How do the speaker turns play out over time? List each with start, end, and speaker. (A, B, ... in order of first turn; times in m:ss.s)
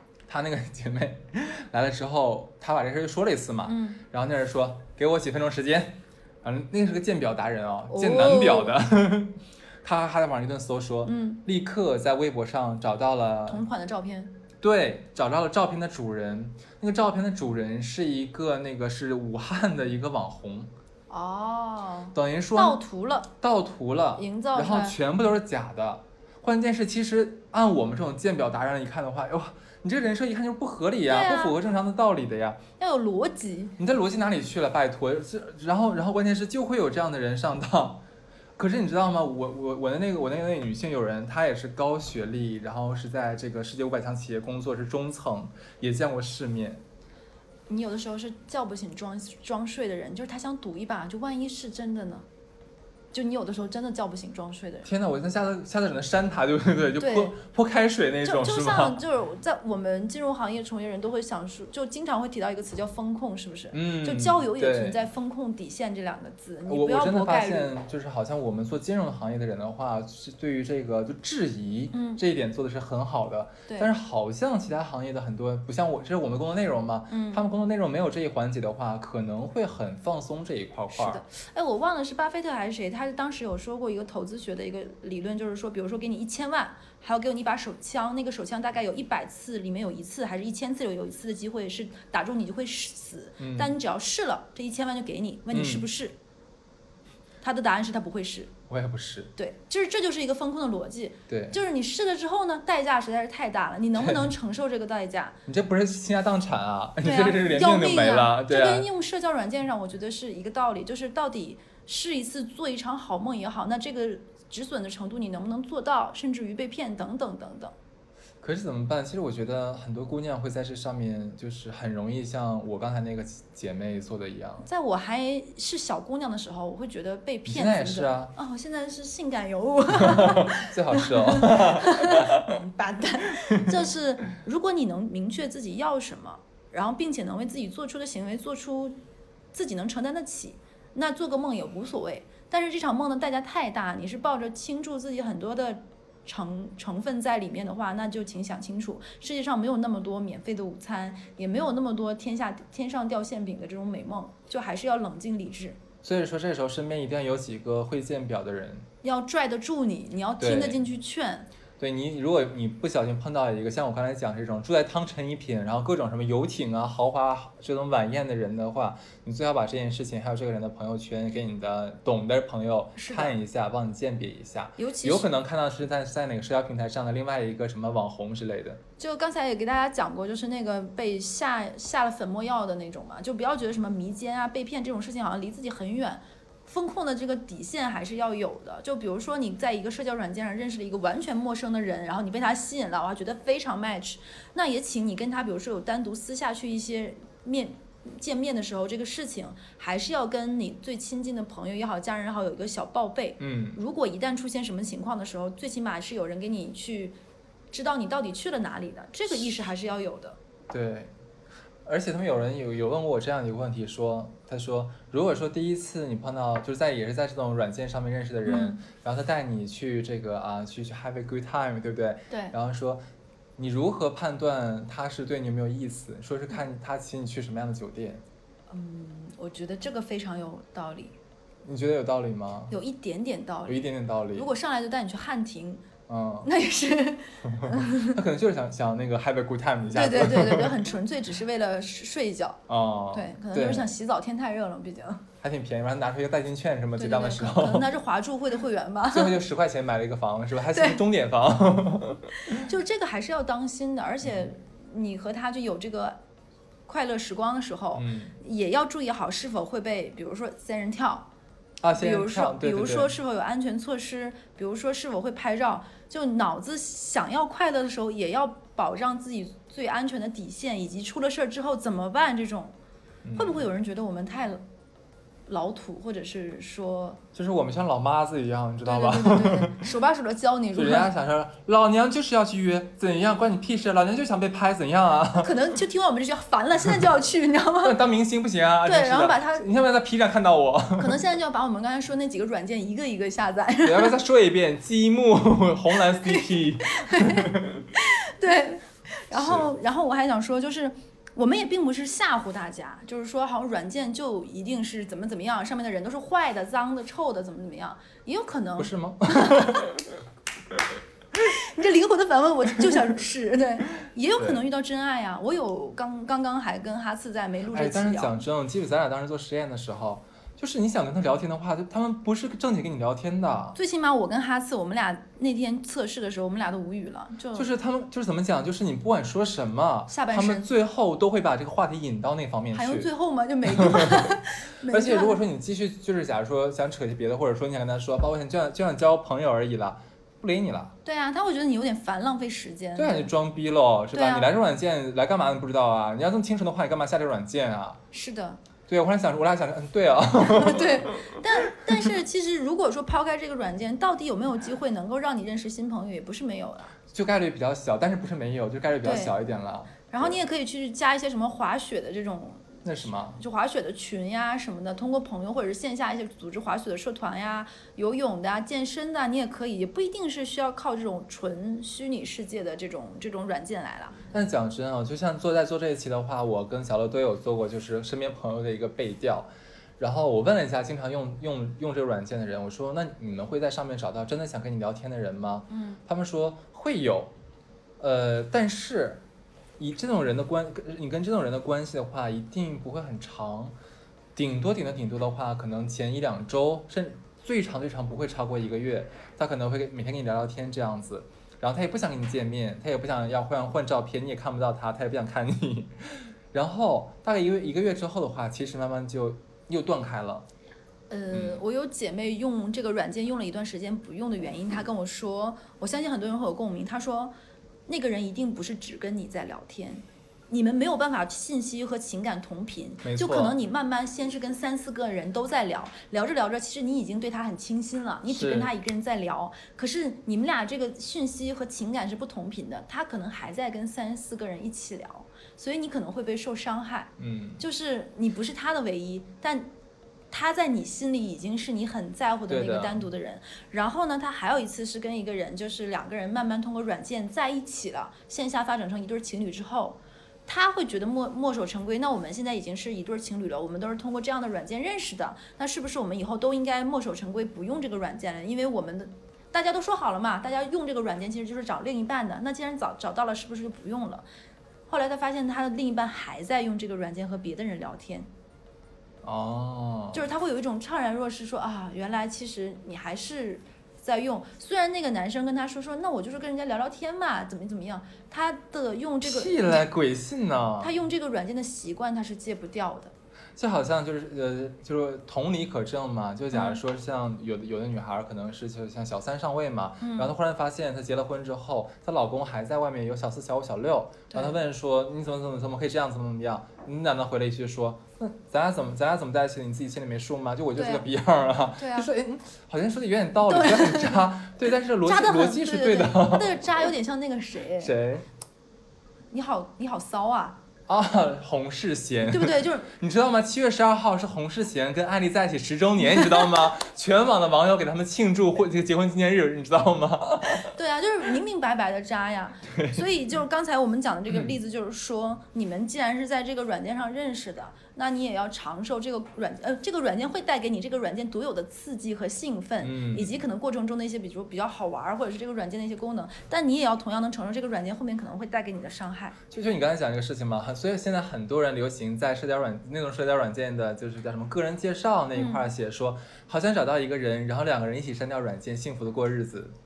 0:00.3-0:13.6 A
0:03.7-0:04.0 B
0:07.9-0:08.8 B
0:11.0-0:11.4 B
0:13.5-0:14.4 B
0:14.6-0:20.7 A
0:21.1-0:23.3 B
0:22.2-0:22.8 A
0:23.4-0:32.6 A
0:24.2-0:25.0 B
0:31.1-0:31.6 B
0:32.8-0:33.8 B
0:33.8-0:38.0 A
0:38.6-0:46.8 A
0:47.7-0:52.3 B
0:53.1-0:54.9 B
0:54.8-0:59.0 A
0:57.0-0:57.4 B
0:58.2-1:07.7 B
1:03.7-1:05.0 A
1:06.7-1:21.2 A
1:11.9-1:12.2 B
1:17.1-1:17.4 B
1:20.9-1:36.2 B
1:33.4-1:33.8 A
1:35.5-1:35.9 A
1:37.4-1:38.5 B
1:38.7-1:39.3 A
1:39.4-1:45.4 B
1:41.3-1:41.6 A
1:44.0-1:44.3 A
1:45.5-1:48.9 A
1:47.0-1:57.7 B
1:58.4-2:04.7 A
2:04.6-2:19.0 B
2:07.5-2:08.3 A
2:10.0-2:12.5 A
2:19.5-2:35.8 B
2:36.0-2:38.9 A
2:39.0-2:41.5 B
2:40.4-2:40.8 A
2:41.8-2:58.8 A
2:53.0-2:53.4 B
2:54.8-2:55.3 B
2:59.0-3:27.2 B
3:23.4-3:23.8 A
3:27.7-3:30.4 B
3:30.7-3:31.1 A
3:31.8-3:43.0 A
3:38.4-3:38.8 B
3:42.3-3:42.6 B
3:43.6-3:48.2 A
3:48.7-3:51.2 B
3:51.6-3:52.7 A
3:52.7-3:55.8 B
3:53.7-3:54.5 A
3:56.1-3:56.5 A
3:56.4-3:58.2 B
3:57.4-4:00.8 A
3:59.9-4:02.6 B
4:02.7-4:03.9 A
4:03.1-4:05.2 B
4:05.4-4:07.9 A
4:07.0-4:09.4 B
4:09.1-4:12.6 A
4:10.7-4:11.0 B
4:12.4-4:16.2 B
4:16.9-4:21.3 B
4:18.0-4:18.4 A
4:21.8-4:23.1 A
4:22.0-4:32.8 B
4:33.2-4:33.6 A
4:33.4-4:34.6 B
4:35.5-4:37.2 B
4:37.4-4:39.9 A
4:38.8-4:41.1 B
4:40.8-4:45.6 A
4:45.4-4:48.0 B
4:47.8-4:51.2 A
4:48.8-4:49.7 B
4:51.0-4:54.2 B
4:53.8-4:57.9 A
4:56.1-5:09.9 B
4:59.3-4:59.7 A
5:08.8-5:10.0 A
5:11.4-5:18.4 B
5:17.7-5:23.8 A
5:23.8-5:27.7 B
5:27.5-5:33.1 A
5:30.1-5:30.7 B
5:32.7-5:35.4 B
5:33.6-5:34.3 A
5:34.9-5:40.9 A
5:41.0-5:43.3 B
5:43.0-5:48.0 A
5:44.1-5:44.5 B
5:48.1-5:48.6 B
5:48.9-5:52.0 A
5:50.4-5:57.0 B
5:57.1-6:00.4 A
5:59.0-5:59.4 B
6:00.1-6:14.2 B
6:02.8-6:03.4 A
6:14.3-6:27.3 A
6:25.7-6:26.0 B
6:28.0-6:29.2 A
6:29.8-6:33.8 A
6:34.4-6:50.5 A
6:51.1-6:57.3 B
6:51.3-6:51.6 A
6:57.9-7:19.7 B
7:03.0-7:03.6 A
7:08.3-7:08.7 A
7:17.2-7:17.6 A
7:20.3-7:44.2 B
7:22.5-7:23.0 A
7:44.9-7:48.3 B
7:49.2-7:50.3 A
7:50.1-7:59.8 B
7:59.2-8:00.9 A
8:00.8-8:03.1 B
8:03.6-8:26.6 A
8:06.5-8:06.8 B
8:10.0-8:10.3 B
8:14.3-8:14.6 B
8:20.8-8:21.0 B
8:21.8-8:22.1 B
8:23.5-8:24.3 B
8:25.0-8:27.9 B
8:27.8-8:28.2 A
8:29.3-8:30.6 B
8:30.9-8:40.7 A
8:32.3-8:32.9 B
8:40.7-8:59.4 B
8:42.7-8:43.0 A
8:44.3-8:44.6 A
8:52.8-8:53.3 A
8:59.5-9:09.8 A
9:05.4-9:05.6 B